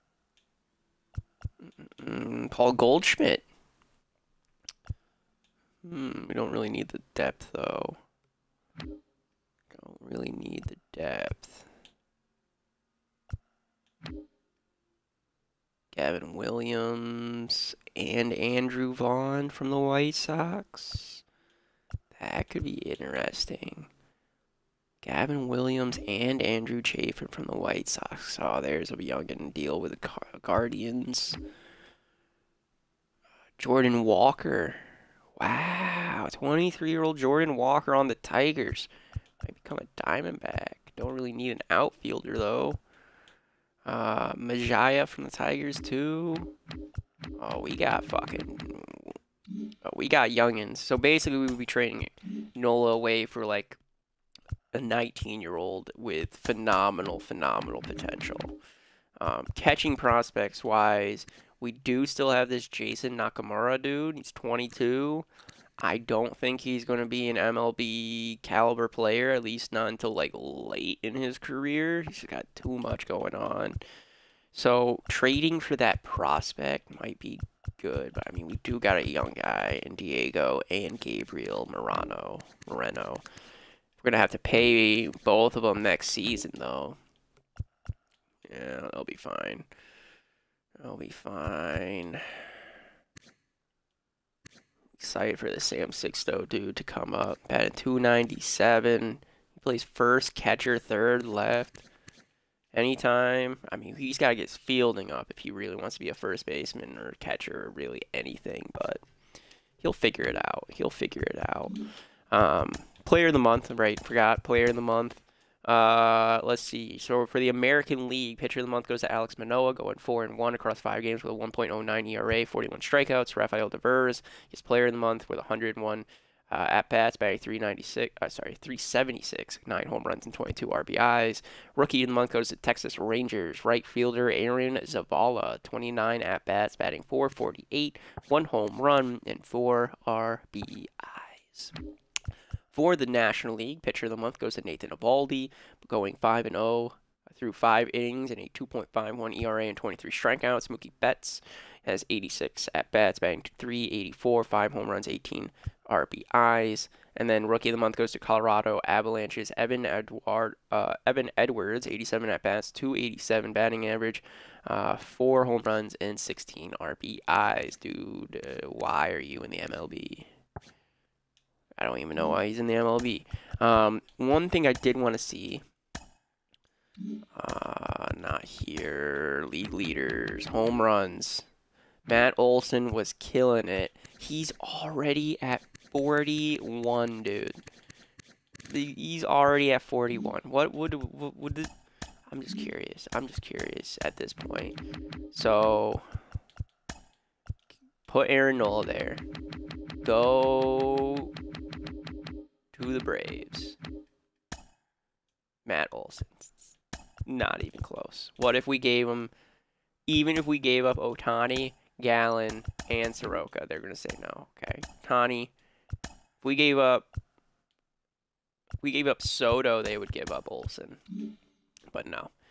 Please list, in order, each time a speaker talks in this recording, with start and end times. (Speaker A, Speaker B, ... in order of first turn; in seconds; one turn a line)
Speaker A: 1.6-3.4
Speaker A: 5.8-8.0
Speaker A: 9.7-11.7
Speaker A: 15.9-21.2
Speaker A: 22.1-23.9
Speaker A: 25.0-31.4
Speaker A: 33.6-34.8
Speaker A: 35.4-38.9
Speaker A: 39.4-42.8
Speaker A: 43.8-46.5
Speaker A: 47.4-49.2
Speaker A: 49.8-53.8
Speaker A: 54.7-58.5
Speaker A: 59.2-65.2
Speaker A: 65.8-73.8
Speaker A: 74.5-83.2
Speaker A: 84.0-87.0
Speaker A: 88.5-89.7
Speaker A: 90.8-92.5
Speaker A: 95.0-101.8
Speaker A: 102.7-109.0
Speaker A: 109.8-111.8
Speaker A: 112.3-141.7
Speaker A: 142.7-170.3
Speaker A: 171.8-175.6
Speaker A: 177.3-181.4
Speaker A: 182.1-187.6
Speaker A: 188.7-191.7
Speaker A: 192.3-194.8
Speaker A: 195.3-196.0
Speaker A: 198.1-199.2
Speaker A: 200.0-201.3
Speaker A: 202.7-203.8
Speaker A: 205.7-209.3
Speaker A: 210.1-215.5
Speaker A: 216.4-217.1
Speaker A: 218.8-221.0
Speaker A: 221.9-222.3